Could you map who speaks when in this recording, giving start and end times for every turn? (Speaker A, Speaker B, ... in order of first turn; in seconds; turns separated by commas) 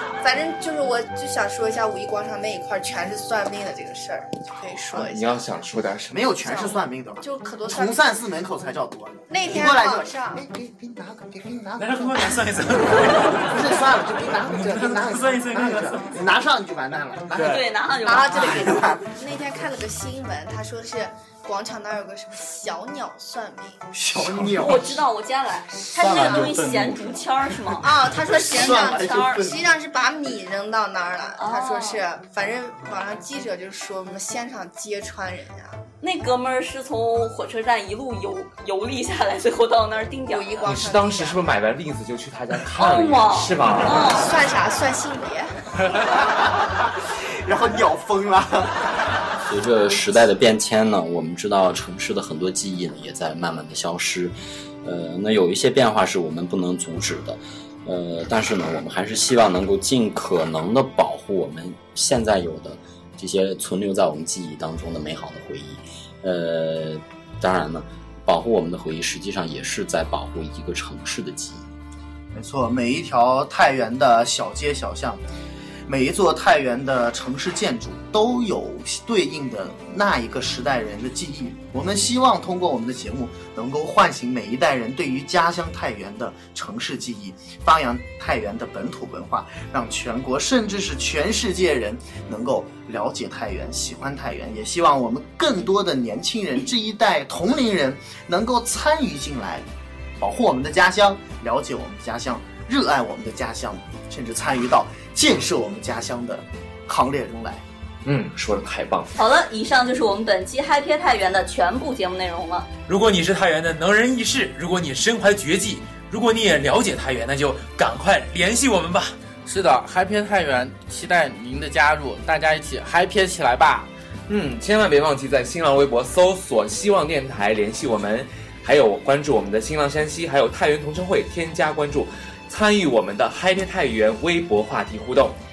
Speaker A: 0.2-5.3, Speaker B: 4.9-6.3, Speaker C: 6.1-18.8, Speaker A: 6.4-8.0, Speaker A: 9.3-10.5, Speaker D: 11.8-13.8, Speaker D: 14.5-16.2, Speaker E: 17.5-18.9, Speaker A: 18.0-23.9, Speaker C: 24.0-25.0, Speaker E: 24.6-27.9, Speaker A: 25.7-26.7, Speaker C: 26.0-26.9, Speaker A: 27.8-35.8, Speaker C: 28.0-29.6, Speaker E: 28.9-29.5, Speaker E: 31.4-32.1, Speaker E: 36.0-40.6, Speaker A: 40.3-41.4, Speaker B: 40.6-44.1, Speaker E: 42.7-44.3, Speaker A: 44.0-45.5, Speaker C: 46.1-46.8, Speaker C: 47.4-48.8, Speaker F: 49.5-71.7, Speaker C: 72.3-75.2, Speaker C: 75.9-99.7, Speaker C: 100.2-107.6, Speaker B: 108.0-109.1, Speaker E: 109.2-112.7, Speaker D: 112.9-119.2, Speaker G: 119.5-123.9, Speaker B: 124.3-135.4